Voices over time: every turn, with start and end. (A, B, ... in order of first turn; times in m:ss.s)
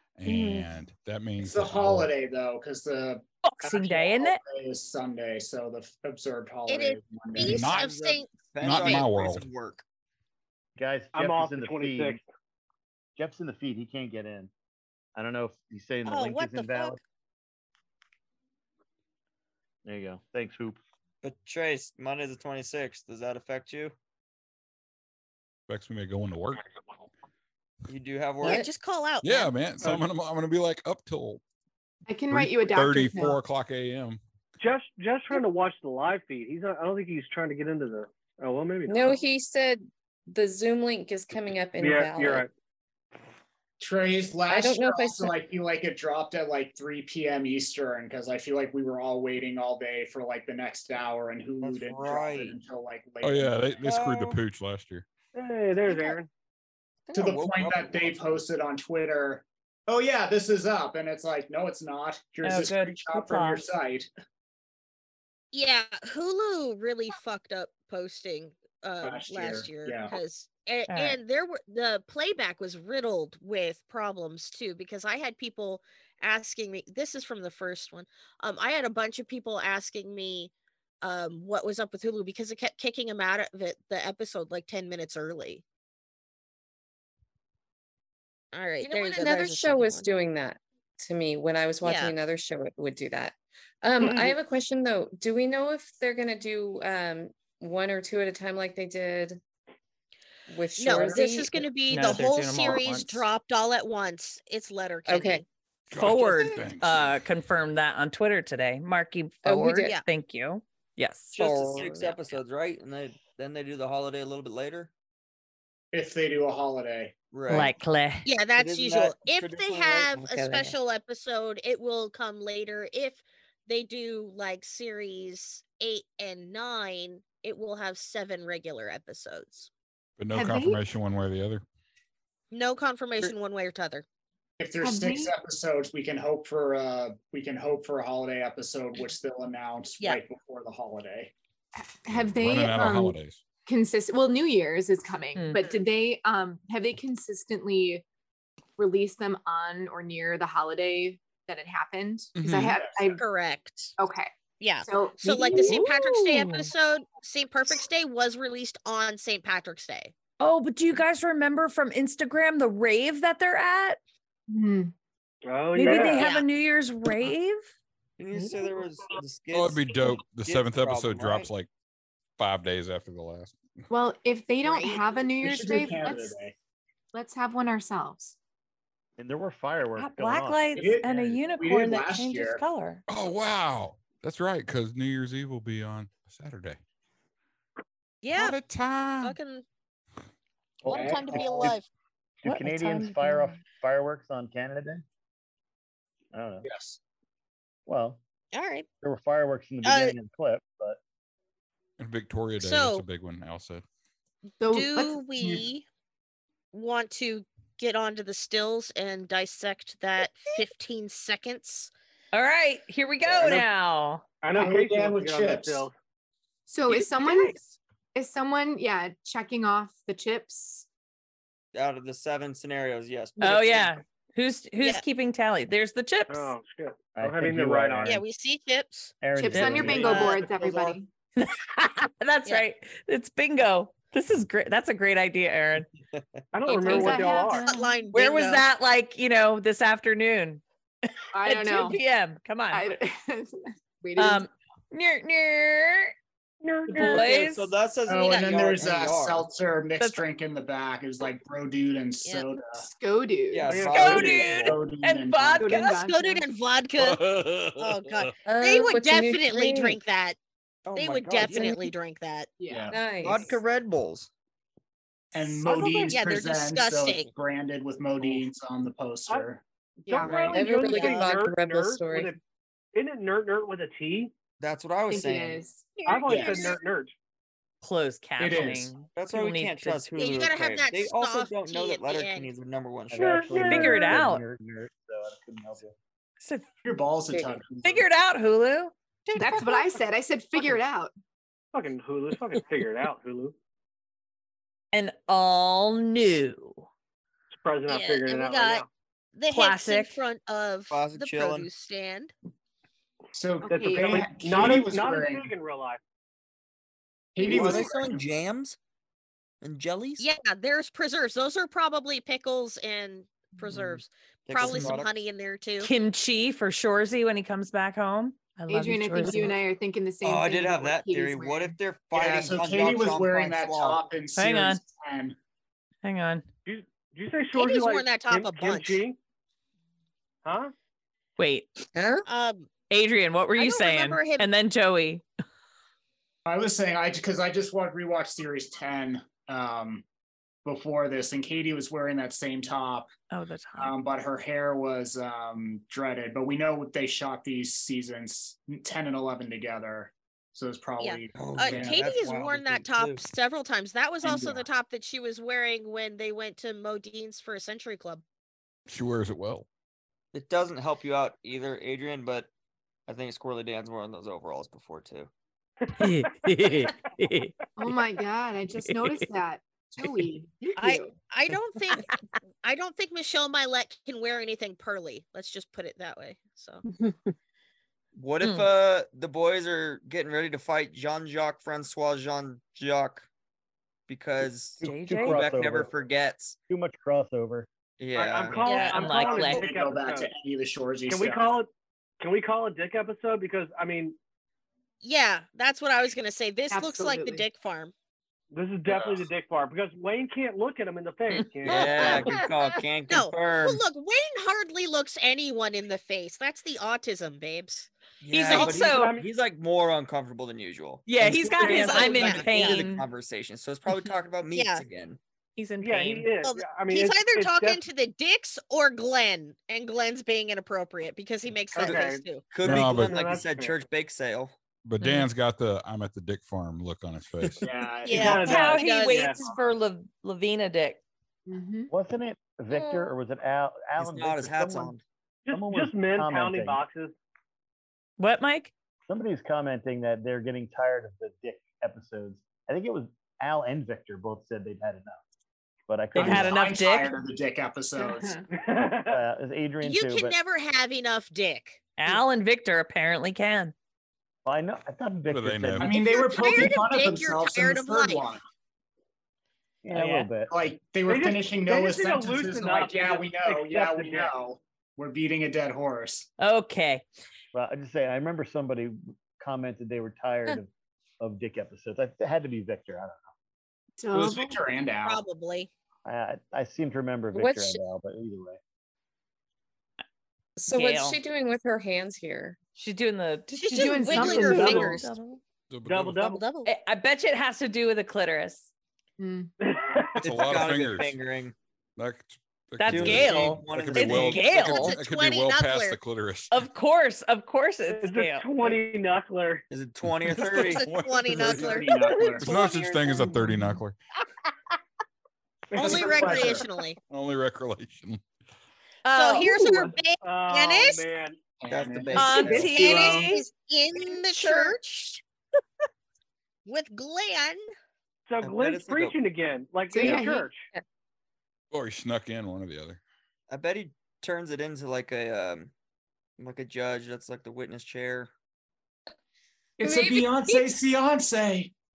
0:00.2-0:02.1 A
0:00.2-0:00.7 B
0:01.4-0:07.7 C
0:03.4-0:04.4 B
0:06.7-0:09.2 D
0:07.4-0:07.9 A
0:07.6-0:09.8 E
0:08.6-0:09.4 A
0:10.8-0:12.2 F
0:11.1-0:12.2 G
0:13.2-0:14.5 F
0:15.1-0:17.0 F
0:16.0-0:17.0 D
0:19.8-0:20.8 F
0:21.2-0:24.0 E
0:25.7-0:26.7 A
0:27.9-0:28.6 E
0:28.4-0:29.5 D
0:28.4-0:28.7 H
0:29.2-0:31.4 A
0:32.0-0:33.4 I
0:32.3-0:34.2 A
0:34.6-0:39.2 G
0:38.9-0:42.4 H
0:41.8-0:42.5 G
0:43.8-0:53.7 C
0:44.5-0:45.4 H
0:51.6-0:52.6 E
0:53.2-0:55.0 A
0:53.8-0:54.4 E
0:55.3-0:56.3 G
0:55.9-0:56.1 D
0:57.1-0:58.4 E
0:57.1-1:04.1 C
1:02.4-1:03.7 B
1:05.5-1:20.5 D
1:09.0-1:10.1 C
1:10.9-1:11.2 B
1:21.0-1:25.6 D
1:28.5-1:30.1 D
1:28.8-1:39.4 H
1:31.8-1:32.1 D
1:40.5-1:41.7 H
1:40.8-1:45.4 D
1:41.9-1:43.2 B
1:45.1-1:45.4 H
1:45.9-1:47.2 A
1:45.9-1:51.4 B
1:49.4-1:49.9 H
1:51.3-1:54.9 E
1:51.4-1:52.2 D
1:55.9-1:57.1 C
1:57.3-1:57.7 E
1:57.5-1:58.2 B
1:58.2-2:09.7 D
1:58.5-2:00.2 E
2:00.2-2:00.7 H
2:10.2-2:11.6 A
2:10.3-2:10.8 I
2:12.5-2:14.0 D
2:14.6-2:21.3 C
2:14.8-2:15.3 I
2:21.8-2:28.0 I
2:22.1-2:23.4 A
2:25.3-2:25.6 B
2:28.8-2:33.2 I
2:32.3-2:32.8 A
2:32.6-2:33.2 C
2:33.2-2:33.9 D
2:34.0-2:34.3 I
2:34.6-2:40.1 D
2:34.8-2:35.8 I
2:35.5-2:36.7 B
2:40.4-2:44.0 B
2:44.5-2:44.9 I
2:45.4-2:46.3 G
2:45.8-2:47.6 B
2:45.9-2:46.5 D
2:48.2-2:51.5 E
2:49.5-2:51.7 A
2:52.4-2:53.6 A
2:53.9-2:56.4 I
2:54.6-2:55.1 D
2:55.4-2:56.5 C
2:57.1-2:58.4 I
2:59.2-3:01.0 F
3:00.0-3:03.0 B
3:00.7-3:02.6 C
3:03.1-3:06.8 A
3:08.2-3:08.6 D
3:08.3-3:09.4 A
3:09.2-3:09.6 D
3:10.8-3:11.8 F
3:10.8-3:11.9 D
3:10.9-3:11.7 C
3:12.4-3:15.0 F
3:12.4-3:13.6 B
3:16.3-3:16.7 F
3:16.6-3:17.0 C
3:17.9-3:18.2 F
3:18.5-3:18.9 D
3:19.0-3:21.0 F
3:19.8-3:20.1 D
3:22.0-3:23.8 A
3:22.6-3:23.0 D
3:24.6-3:25.2 I
3:24.7-3:25.8 D
3:26.7-3:31.9 D
3:32.3-3:34.2 B
3:33.2-3:33.6 E
3:34.4-3:35.9 G
3:34.5-3:35.9 C
3:36.7-3:37.6 I
3:38.1-3:40.8 I
3:41.7-3:43.9 E
3:43.4-3:46.5 B
3:46.3-3:48.2 G
3:47.2-3:48.2 F
3:48.0-3:49.2 D
3:49.2-3:50.5 F
3:49.3-3:51.1 I
3:49.5-3:50.9 E
3:51.4-3:55.9 B
3:56.5-3:57.6 G
3:56.7-4:00.6 B
3:56.7-3:58.0 I
3:57.6-3:58.7 D
4:01.3-4:02.0 I
4:01.4-4:02.8 B
4:02.7-4:04.4 I
4:04.2-4:06.1 B
4:06.6-4:07.3 G
4:06.9-4:09.5 E
4:06.9-4:07.7 B
4:08.0-4:12.9 C
4:08.1-4:08.6 D
4:10.0-4:10.2 B
4:12.8-4:13.8 I
4:13.5-4:14.8 E
4:13.6-4:14.4 G
4:14.0-4:15.9 C
4:14.0-4:16.0 B
4:15.6-4:16.4 I
4:15.8-4:17.2 D
4:17.0-4:17.8 A
4:17.8-4:20.4 D
4:18.4-4:20.0 H
4:20.8-4:21.8 E
4:20.9-4:22.5 D
4:21.4-4:21.9 H
4:22.6-4:23.3 I
4:22.7-4:23.0 C
4:22.9-4:23.6 H
4:23.2-4:24.3 E
4:25.3-4:29.6 C
4:25.6-4:26.2 G
4:26.1-4:27.3 D
4:30.0-4:31.3 I
4:30.1-4:32.4 G
4:30.2-4:32.4 H
4:32.9-4:34.3 G
4:34.6-4:35.6 E
4:35.1-4:35.9 I
4:36.0-4:36.8 D
4:36.0-4:37.1 G
4:37.8-4:40.0 B
4:38.4-4:38.9 C
4:39.1-4:43.5 E
4:40.1-4:42.5 D
4:43.1-4:45.9 F
4:43.1-4:44.2 G
4:43.7-4:44.4 B
4:46.4-4:46.7 B
4:46.8-4:48.0 C
4:47.8-4:48.9 B
4:49.3-4:51.1 I
4:49.4-4:49.6 D
4:51.7-4:53.5 G
4:54.9-4:56.9 B
4:57.5-4:58.8 G
4:57.9-5:02.3 D
4:59.5-5:00.2 B
5:00.9-5:01.7 E
5:03.3-5:05.5 C
5:03.7-5:04.3 I
5:03.7-5:06.0 G
5:07.3-5:08.2 C
5:07.4-5:08.8 E
5:09.6-5:10.3 E
5:10.2-5:15.9 D
5:13.7-5:15.1 E
5:15.8-5:19.6 B
5:18.7-5:21.8 I
5:20.2-5:24.0 E
5:22.1-5:25.4 C
5:24.4-5:24.8 B
5:26.0-5:26.4 B
5:26.6-5:29.2 G
5:27.5-5:29.0 D
5:30.4-5:30.7 G
5:31.4-5:31.7 B
5:31.9-5:32.2 H
5:32.2-5:32.7 D
5:32.9-5:35.2 B
5:33.6-5:34.5 D
5:36.4-5:40.0 C
5:40.6-5:43.1 C
5:43.3-5:43.9 B
5:43.8-5:52.1 C
5:51.0-5:58.2 D
5:51.3-5:53.2 E
5:54.2-5:54.7 C
5:58.9-5:59.6 A
6:00.3-6:02.5 E
6:03.1-6:05.3 E
6:05.9-6:07.5 B
6:07.8-6:11.2 I
6:08.8-6:09.2 B
6:10.8-6:16.8 D
6:18.1-6:23.3 E
6:18.4-6:18.7 B
6:24.1-6:26.6 E
6:24.8-6:25.9 F
6:24.8-6:25.4 B
6:26.7-6:27.7 F
6:28.0-6:28.7 E
6:28.1-6:30.3 G
6:28.6-6:29.0 D
6:28.7-6:29.7 B
6:28.8-6:31.6 C
6:31.1-6:31.7 G
6:32.2-6:34.2 G
6:35.0-6:37.9 D
6:36.7-6:37.4 I
6:38.5-6:42.4 G
6:41.4-6:42.4 B
6:41.6-6:43.8 E
6:41.8-6:42.2 D
6:43.1-6:48.8 D
6:48.2-6:55.2 E
6:48.3-6:49.1 B
6:48.6-6:49.3 G
6:51.0-6:53.0 B
6:51.6-6:52.9 D
6:54.5-6:54.8 D
6:55.6-6:56.3 B
6:55.8-6:57.8 G
6:56.4-7:02.5 D
7:01.7-7:03.8 G
7:01.8-7:04.5 E
7:02.6-7:03.2 A
7:04.8-7:07.7 A
7:05.0-7:05.3 B
7:07.6-7:08.7 C
7:08.0-7:09.4 D
7:08.1-7:09.4 G
7:08.2-7:11.0 B
7:11.5-7:11.9 I
7:11.9-7:15.0 F
7:12.7-7:13.1 H
7:14.0-7:15.0 E
7:15.4-7:17.1 G
7:15.5-7:16.8 F
7:18.2-7:18.7 B
7:19.1-7:25.2 F
7:25.9-7:26.7 F
7:26.1-7:27.1 B
7:26.1-7:28.4 C
7:28.0-7:28.4 I
7:28.5-7:29.2 G
7:29.0-7:30.4 F
7:29.8-7:31.9 D
7:32.0-7:33.7 B
7:34.4-7:36.0 F
7:35.3-7:35.9 A
7:35.8-7:38.4 C
7:35.9-7:38.4 D
7:39.8-7:40.5 F
7:39.9-7:40.3 B
7:40.5-7:46.3 C
7:41.1-7:44.3 G
7:46.4-7:47.0 B
7:47.5-7:50.7 F
7:51.2-7:53.3 F
7:54.0-7:54.6 I
7:54.1-7:55.2 C
7:55.0-7:55.7 D
7:56.0-7:58.6 F
7:57.3-7:57.8 H
8:00.6-8:02.6 H
8:00.7-8:01.2 B
8:02.8-8:05.4 B
8:03.5-8:05.1 D
8:03.7-8:05.0 I
8:05.7-8:06.2 A
8:05.8-8:06.4 G
8:06.2-8:06.7 D
8:06.6-8:08.7 B
8:09.2-8:09.5 I
8:09.6-8:10.2 G
8:10.2-8:11.2 A
8:10.2-8:11.5 E
8:12.0-8:16.6 A
8:12.8-8:15.0 B
8:12.8-8:14.6 E
8:14.4-8:16.0 D
8:16.5-8:18.5 B
8:17.9-8:19.6 G
8:19.7-8:20.9 E
8:20.0-8:21.7 A
8:20.4-8:22.3 D
8:21.3-8:22.5 C
8:22.2-8:22.7 B
8:22.4-8:24.0 A
8:25.7-8:26.6 G
8:25.7-8:26.7 C
8:25.7-8:27.0 D
8:27.1-8:28.2 A
8:29.0-8:29.9 B
8:29.1-8:31.0 D
8:30.2-8:31.4 G
8:31.6-8:33.4 C
8:31.7-8:33.1 E
8:32.2-8:33.4 B
8:32.6-8:35.2 D
8:34.4-8:34.7 B
8:36.6-8:37.7 D
8:38.3-8:40.7 G
8:38.4-8:39.2 E
8:39.9-8:40.5 I
8:41.7-8:43.0 A
8:43.5-8:45.7 E
8:46.4-8:48.3 E
8:49.8-8:51.7 C
8:49.8-8:50.7 H